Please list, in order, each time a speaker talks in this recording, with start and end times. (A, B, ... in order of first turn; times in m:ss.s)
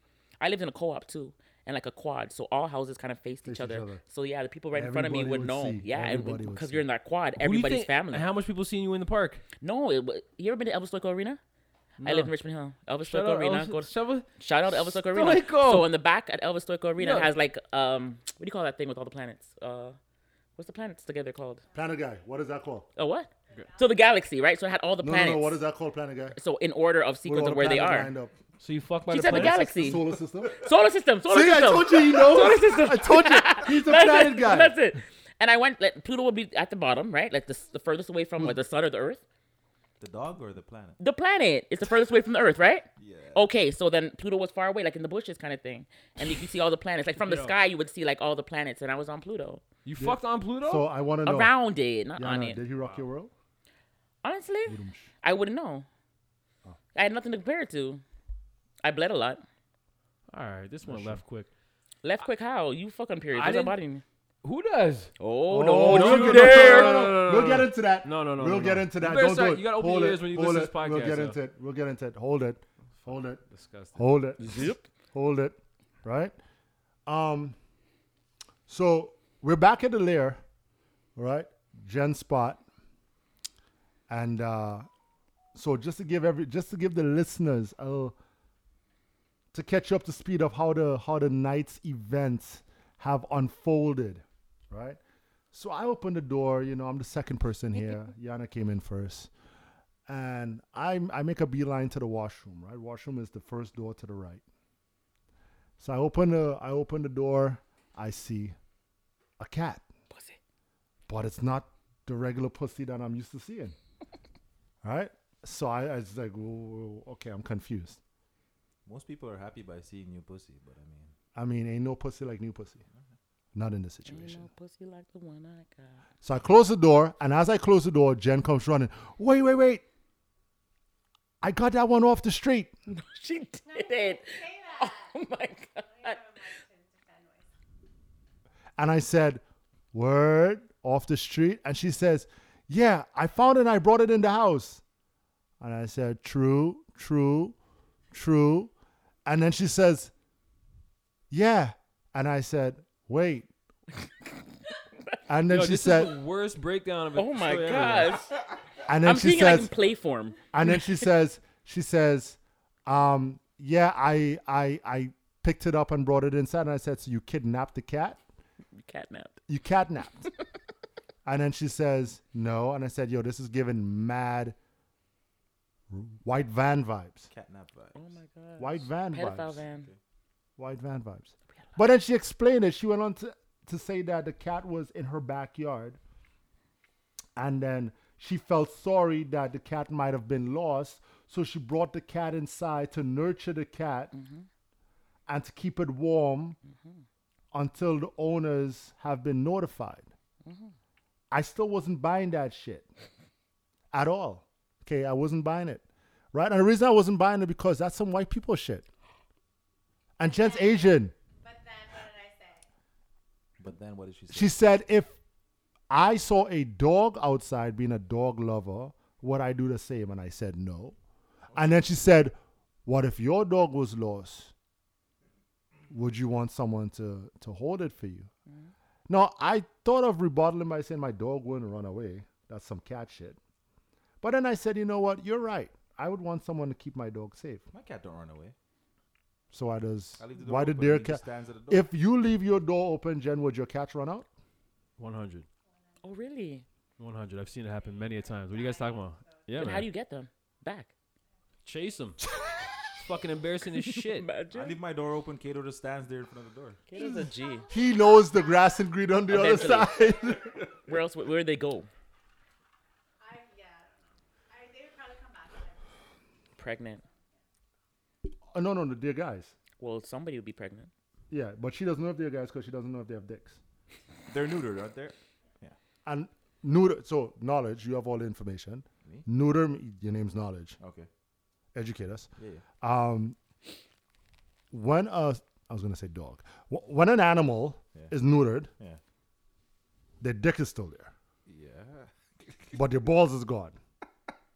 0:00.4-0:08.2 A
0:03.4-0:04.0 B
0:04.7-0:06.8 B
0:07.4-0:09.4 C
0:09.6-0:11.4 A
0:12.0-0:12.3 C
0:12.0-0:20.0 A
0:13.0-0:15.9 C
0:17.0-0:17.3 C
0:20.6-0:21.6 A
0:21.7-0:22.9 B
0:23.0-0:25.6 A
0:23.5-0:23.9 D
0:25.0-0:26.4 B
0:26.3-0:28.1 A
0:27.2-0:28.3 B
0:28.6-0:30.1 C
0:29.1-0:39.2 A
0:29.2-0:30.6 B
0:31.3-0:34.8 B
0:40.0-0:41.0 E
0:41.0-0:49.6 A
0:43.0-0:43.5 E
0:47.2-0:47.5 C
0:49.8-0:50.9 C
0:50.0-0:51.5 B
0:51.2-0:52.6 A
0:52.2-0:53.3 B
0:54.2-0:55.8 A
0:54.7-0:55.1 B
0:56.9-0:58.0 A
0:58.8-0:59.4 A
1:00.3-1:01.5 C
1:00.8-1:01.2 B
1:02.0-1:04.0 A
1:03.3-1:03.8 C
1:04.4-1:05.1 C
1:05.2-1:07.1 A
1:05.5-1:13.4 B
1:05.9-1:11.4 C
1:13.0-1:14.1 C
1:14.0-1:16.3 B
1:14.4-1:14.8 A
1:17.1-1:17.6 B
1:18.7-1:20.4 B
1:21.2-1:22.6 B
1:24.1-1:24.9 B
1:25.5-1:28.2 B
1:29.5-1:35.0 B
1:35.5-1:39.3 B
1:40.1-1:44.4 B
1:45.8-1:48.5 B
1:49.4-1:49.8 B
1:50.1-1:50.4 A
1:51.1-1:53.8 B
1:54.8-1:58.0 B
1:58.8-2:01.1 E
2:01.3-2:02.8 B
2:03.5-2:04.5 B
2:04.0-2:06.0 A
2:06.2-2:09.8 B
2:11.4-2:12.7 B
2:12.9-2:16.2 A
2:13.7-2:15.2 D
2:15.8-2:17.5 D
2:18.8-2:19.4 B
2:19.9-2:24.8 B
2:25.6-2:27.6 B
2:28.1-2:28.7 B
2:29.2-2:30.1 B
2:31.3-2:33.5 B
2:35.3-2:36.2 B
2:35.5-2:38.2 C
2:37.2-2:38.4 A
2:38.8-2:39.7 B
2:39.0-2:41.0 A
2:40.5-2:48.2 B
2:48.8-2:49.4 A
2:49.5-2:50.3 B
2:51.2-2:54.6 B
2:55.9-2:57.3 B
2:57.3-2:58.0 E
2:58.0-2:59.9 A
2:58.6-2:59.6 B
3:00.6-3:06.0 B
3:07.4-3:14.1 B
3:14.1-3:14.4 A
3:15.3-3:16.6 B
3:17.5-3:20.1 B
3:20.4-3:20.7 A
3:21.3-3:22.9 B
3:23.9-3:28.9 B
3:30.2-3:31.1 B
3:30.2-3:30.9 D
3:31.4-3:32.7 D
3:33.6-3:34.6 E
3:34.3-3:35.2 B
3:35.9-3:41.0 B
3:41.5-3:41.8 E
3:41.5-3:44.5 B
3:45.9-3:48.3 B
3:49.1-3:53.4 B
3:54.2-3:57.6 B
3:57.7-3:58.5 E
3:59.5-4:04.3 B
4:00.2-4:01.9 E
4:05.0-4:05.5 C
4:06.0-4:06.6 A
4:07.0-4:09.9 C
4:07.7-4:09.8 D
4:09.6-4:10.9 A
4:11.6-4:12.2 C
4:13.0-4:14.3 C
4:14.0-4:14.8 A
4:14.5-4:16.8 E
4:16.9-4:17.6 A
4:16.9-4:20.6 D
4:17.0-4:20.5 B
4:19.3-4:20.1 A
4:20.9-4:21.9 A
4:23.2-4:25.8 D
4:26.6-4:27.0 A
4:28.5-4:29.5 B
4:29.8-4:30.9 A
4:31.3-4:33.6 B
4:34.3-4:35.8 E
4:36.0-4:40.8 B
4:40.8-4:41.1 E
4:41.7-4:42.3 B
4:42.4-4:42.6 E
4:42.8-4:43.4 B
4:44.7-4:48.7 B
4:50.2-4:51.1 B
4:51.5-4:52.8 E
4:52.7-4:53.8 B